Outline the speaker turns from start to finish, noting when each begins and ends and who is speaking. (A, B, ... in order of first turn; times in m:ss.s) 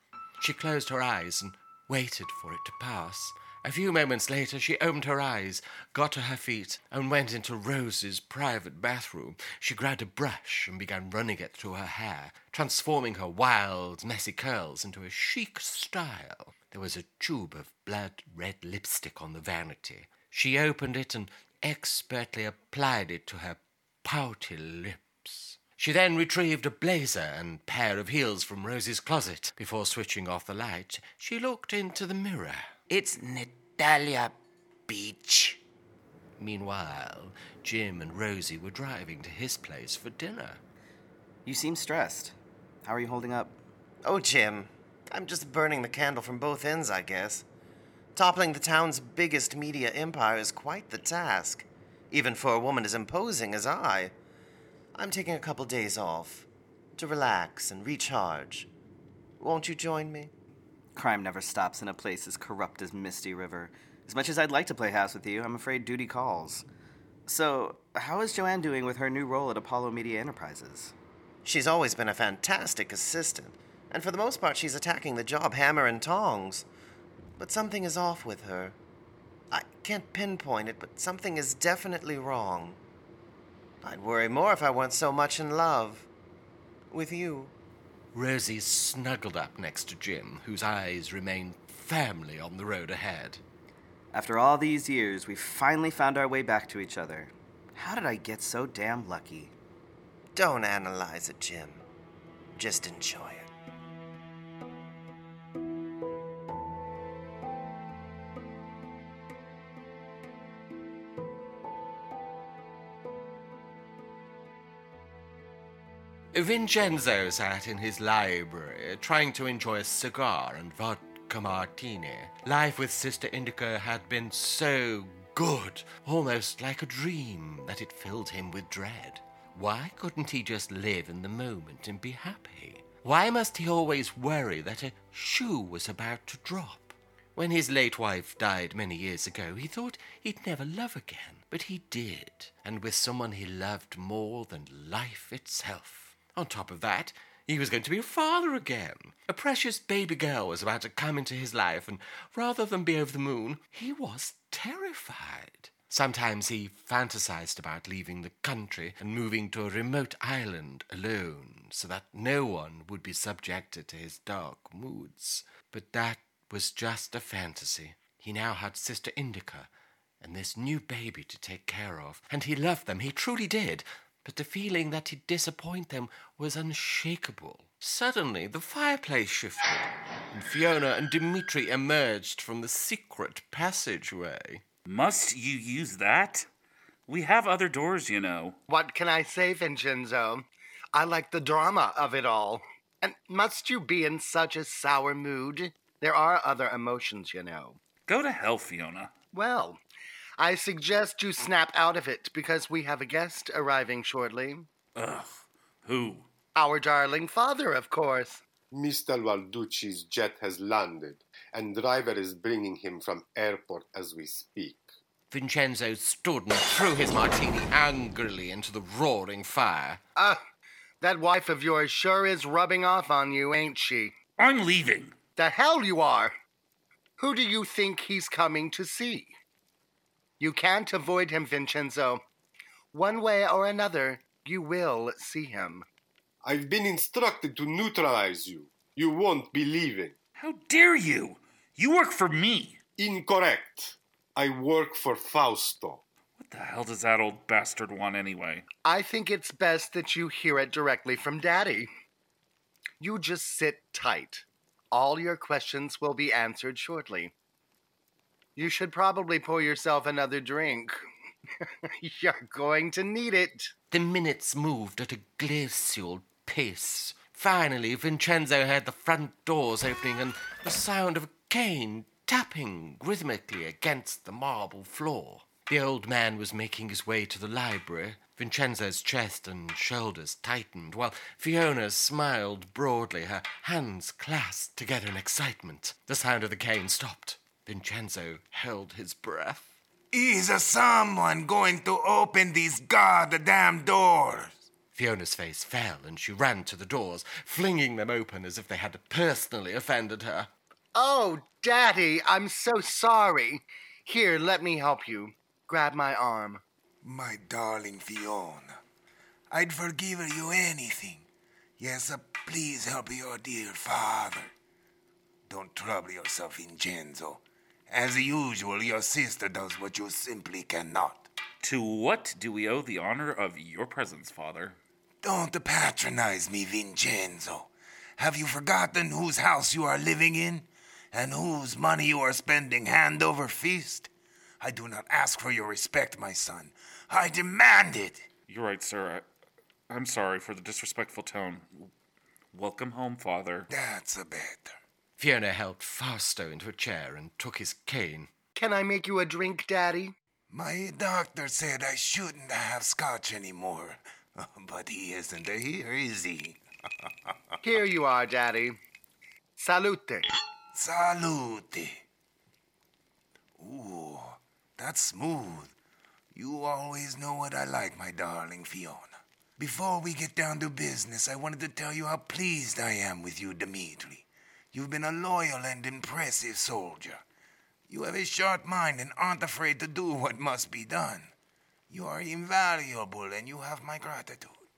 0:00.4-0:32.7 A
0:32.9-0:34.4 B
0:34.9-0:35.6 B
0:36.4-0:40.6 A
0:41.4-0:43.6 C
0:44.0-0:47.4 D
0:48.2-0:54.1 D
0:54.9-0:58.7 D
0:59.4-1:00.3 D
1:00.9-1:06.6 C
1:07.3-1:10.9 C
1:11.4-1:16.6 D
1:17.4-1:18.8 D
1:19.5-1:22.8 D
1:23.8-1:26.1 D
1:26.9-1:27.5 D
1:28.1-1:33.4 A
1:34.1-1:39.5 C
1:40.3-1:41.8 D
1:42.6-1:43.5 D
1:56.3-2:49.7 A
2:50.2-3:04.6 A
3:04.8-3:06.5 E
3:07.1-3:08.6 E
3:08.7-3:17.8 F
3:18.1-3:19.1 E
3:19.3-3:19.8 F
3:20.4-3:24.7 F
3:25.0-3:26.3 E
3:26.5-3:28.4 F
3:28.7-3:34.9 G
3:35.3-3:40.0 A
3:41.0-3:44.1 F
3:44.4-3:45.1 E
3:45.4-3:46.3 F
3:47.2-3:49.3 F
3:50.4-3:52.2 F
3:52.9-3:55.8 F
3:56.4-4:00.2 G
4:00.4-4:02.8 E
4:03.0-4:06.0 G
4:06.4-4:08.6 E
4:08.8-4:11.9 F
4:13.0-4:17.3 F
4:18.6-4:21.0 F
4:21.6-4:23.7 F
4:23.9-4:49.8 A
4:50.1-4:54.6 H
4:54.9-5:00.5 A
5:00.9-5:06.6 F
5:07.0-5:08.8 H
5:09.5-5:11.2 H
5:11.8-5:14.5 H
5:15.5-5:21.3 H
5:21.6-5:24.8 E
5:25.2-5:34.1 H
5:34.6-5:38.2 H
5:38.5-5:39.2 E
5:39.9-5:41.9 E
5:42.5-5:43.7 E
5:43.7-5:44.8 H
5:45.2-5:48.3 A
5:48.6-5:50.1 F
5:50.5-5:56.6 H
5:57.6-5:58.8 F
5:59.6-6:00.3 F
6:00.7-6:02.0 H
6:03.6-6:05.7 H
6:06.3-6:17.2 H
6:17.9-6:21.3 H
6:21.9-6:24.6 H